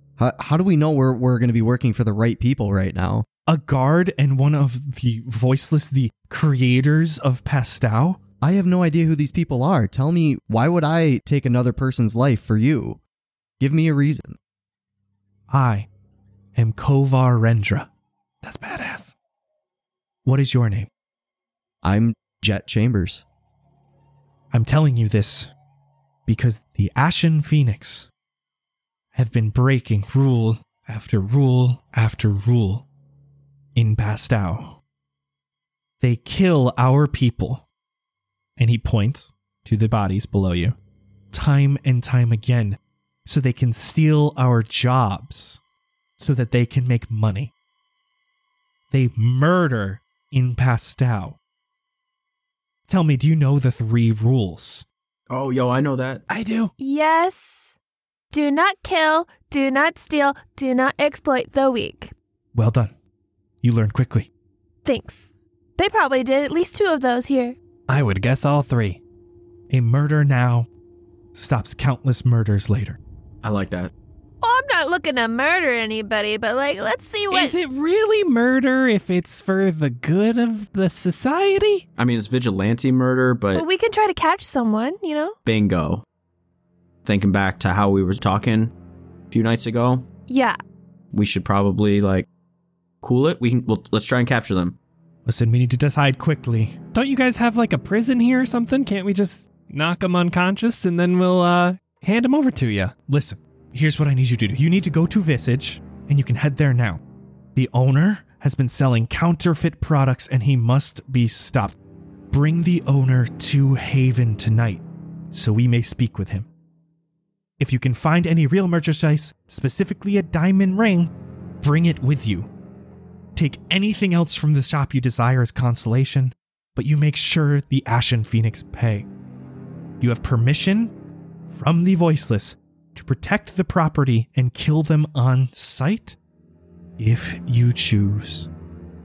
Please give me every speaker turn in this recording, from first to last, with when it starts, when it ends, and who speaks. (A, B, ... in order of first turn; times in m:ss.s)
0:00.2-0:03.2 A
0:03.5-0:08.2 B
0:08.4-0:13.0 A
0:13.6-0:14.4 A
0:15.5-0:15.9 B
0:16.5-0:17.9 B
0:18.4-0:19.1 C
0:20.2-0:20.9 B
0:21.8-0:23.2 A
0:24.5-0:25.5 B
0:26.3-0:28.1 B
0:29.1-0:32.8 B
0:33.7-0:34.8 B
0:36.0-0:37.6 B
0:38.6-0:40.8 B
0:41.3-0:45.6 B
0:46.2-0:47.5 B
0:48.9-0:51.4 B
0:52.9-0:54.8 B
0:55.3-0:56.2 D
0:56.3-0:56.7 C
0:56.8-0:57.7 E
0:58.3-1:02.1 E
1:02.5-1:02.9 B
1:03.6-1:04.3 B
1:04.8-1:07.6 E
1:07.9-1:09.0 C
1:09.7-1:10.7 B
1:11.3-1:13.0 B
1:13.4-1:13.9 D
1:14.4-1:17.6 E
1:17.3-1:21.8 C
1:22.0-1:23.6 D
1:23.5-1:25.4 E
1:25.4-1:26.0 D
1:27.0-1:28.7 D
1:29.3-1:30.0 D
1:30.3-1:30.6 E
1:31.1-1:32.3 D
1:33.0-1:34.8 D
1:35.2-1:36.8 B
1:36.9-1:42.9 C
1:43.1-1:47.0 B
1:47.6-1:51.8 B
1:52.3-1:56.5 B
1:57.6-2:01.1 B
2:01.6-2:02.5 B
2:03.4-2:09.1 B
2:10.0-2:10.9 B
2:11.5-2:16.2 B
2:17.0-2:18.5 B